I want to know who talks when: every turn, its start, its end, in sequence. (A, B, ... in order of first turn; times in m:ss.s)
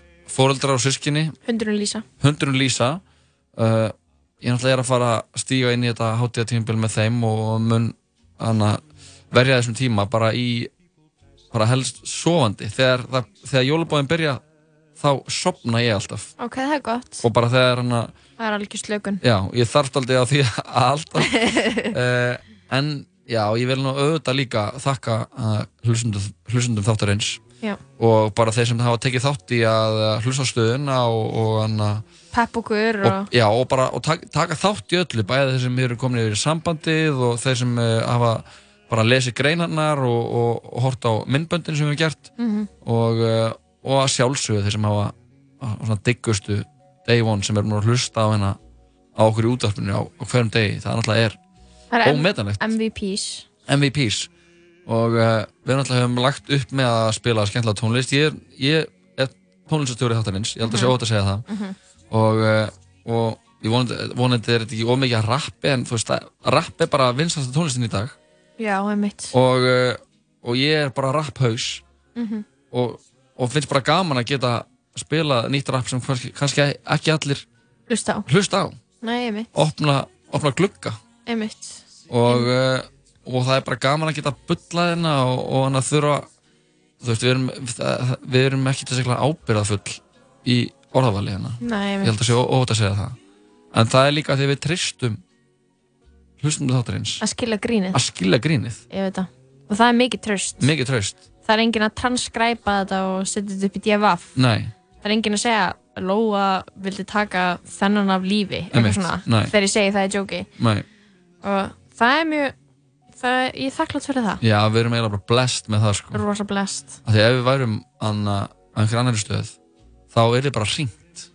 0:00.3-0:01.4 A
0:01.5-0:02.0 B
0:02.2-0:03.0 A
0:03.6-0:10.7 A
0:11.5-0:14.4 A
0:15.0-0:16.3 A
0:16.4-0:17.2 B
0:17.2-0:18.1 A
0:18.4-0:19.2 B
0:19.2-0:27.4 A
0:21.2-0:21.9 B
0:28.0-0:32.0 A
0:32.3-0:33.3 B
0:33.0-0:42.3 A
0:42.4-0:42.7 B
0:42.8-0:48.6 A
0:49.2-0:51.4 A
0:51.9-0:53.5 B
0:52.0-0:52.6 A
0:53.7-0:54.3 A
0:54.9-1:01.4 A
1:00.6-1:00.9 B
1:01.5-1:01.8 B
1:02.1-1:08.2 A
1:08.6-1:09.3 B
1:09.3-1:11.8 A
1:12.2-1:12.4 B
1:12.7-1:17.4 A
1:17.9-1:18.3 B
1:18.3-1:18.8 A
1:19.0-1:19.5 B
1:19.5-1:21.0 A
1:21.3-1:22.5 B
1:22.1-1:26.3 A
1:27.0-1:33.2 A
1:31.6-1:32.2 B
1:33.7-1:35.2 A
1:36.4-1:37.2 A
1:37.2-1:38.0 B
1:37.9-1:38.8 A
1:38.9-1:40.7 B
1:40.6-1:41.2 A
1:41.4-1:44.4 B
1:44.4-1:44.7 A
1:45.0-1:50.5 B
1:48.7-1:49.5 A
1:50.6-1:50.9 A
1:51.4-1:52.5 B
1:53.2-1:54.4 B
1:54.4-1:56.2 A
1:56.1-1:57.0 B
1:57.0-1:59.6 A
2:00.1-2:01.3 A